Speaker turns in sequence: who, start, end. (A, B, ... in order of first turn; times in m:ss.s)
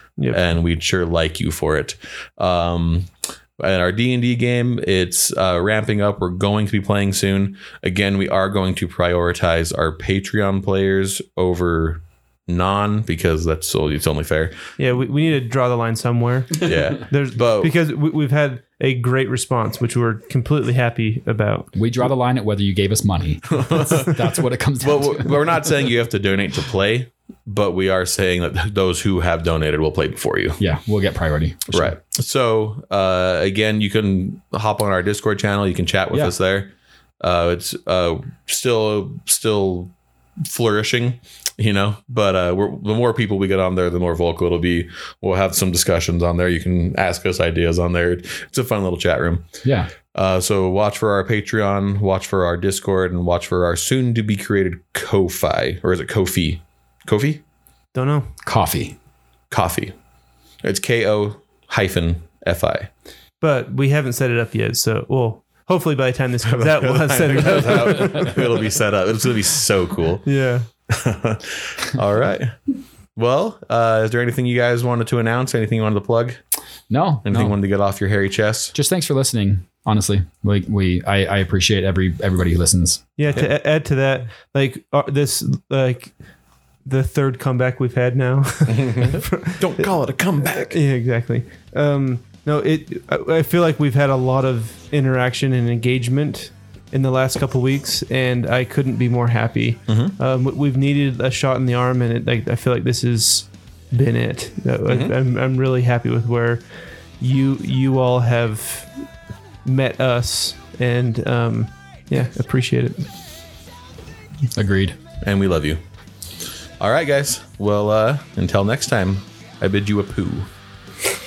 0:00.3-0:14.6 A
0:14.8-0:21.7 B
0:16.6-0:17.7 A
0:21.7-0:25.4 C
0:23.5-0:24.2 A
0:24.8-0:30.6 A
0:30.6-0:32.0 C
0:31.7-0:49.5 A
0:49.6-0:49.9 C
0:50.1-0:57.4 A
0:57.9-0:58.3 B
0:58.4-0:58.9 C
0:59.5-0:59.9 A
1:00.6-1:02.9 A
1:03.4-1:08.4 B
1:06.4-1:10.3 A
1:10.2-1:10.6 B
1:10.9-1:12.6 A
1:13.2-1:16.4 A
1:16.9-1:17.5 C
1:17.2-1:18.7 A
1:18.7-1:23.1 C
1:23.2-1:26.1 B
1:26.8-1:29.9 B
1:28.7-1:30.8 A
1:30.6-1:46.6 B
1:39.9-1:40.2 A
1:44.8-1:45.1 A
1:47.2-1:49.0 B
1:49.6-1:53.1 B
1:54.6-1:55.0 C
1:55.2-1:55.8 A
1:56.8-2:00.5 A